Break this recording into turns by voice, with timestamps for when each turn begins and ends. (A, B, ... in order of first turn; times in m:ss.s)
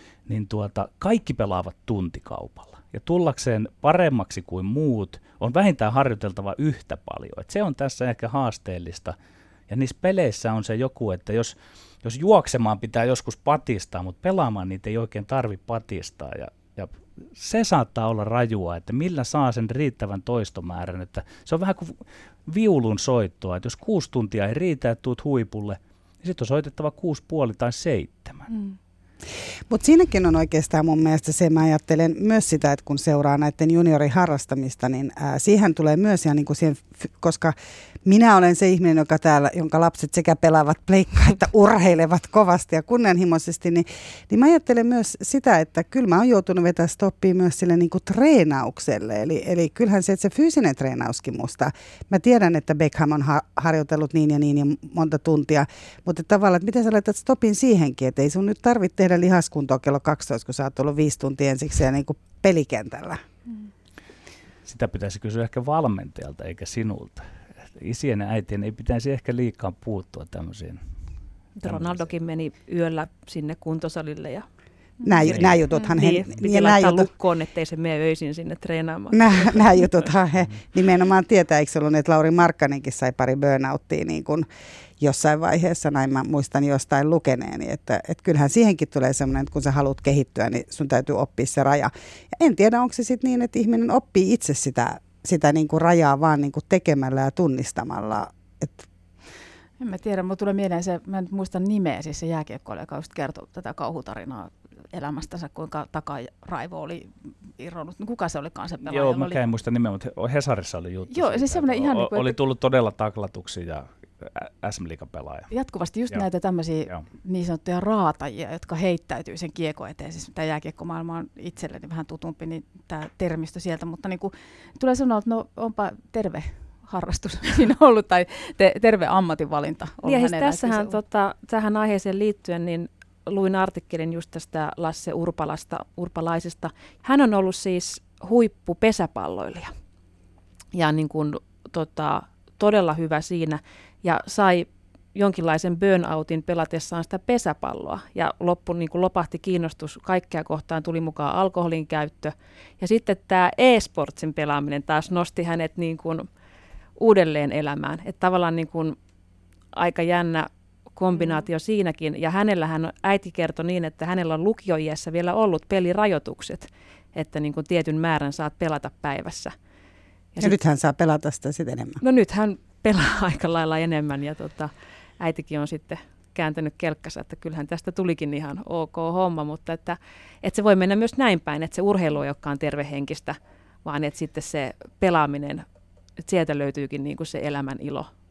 0:00.3-0:09.2 A
0:09.7-0:28.5 A
0:28.5-0:28.8 B
0:29.7-1:03.2 C
1:04.6-1:10.8 A
1:11.6-1:14.5 D
1:11.6-1:12.1 A
1:15.0-1:17.1 C
1:15.2-1:19.9 D
1:15.3-1:15.6 A
1:19.1-1:24.5 C
1:25.0-1:38.9 C
1:39.8-1:49.4 B
1:48.8-1:55.5 A
1:51.1-1:52.4 B
1:55.5-2:11.0 B
2:10.0-2:19.7 D
2:20.7-2:36.3 D
2:37.0-2:39.0 D
2:39.7-2:49.5 D
2:50.4-2:52.0 C
2:52.0-3:05.6 D
3:06.2-3:08.1 D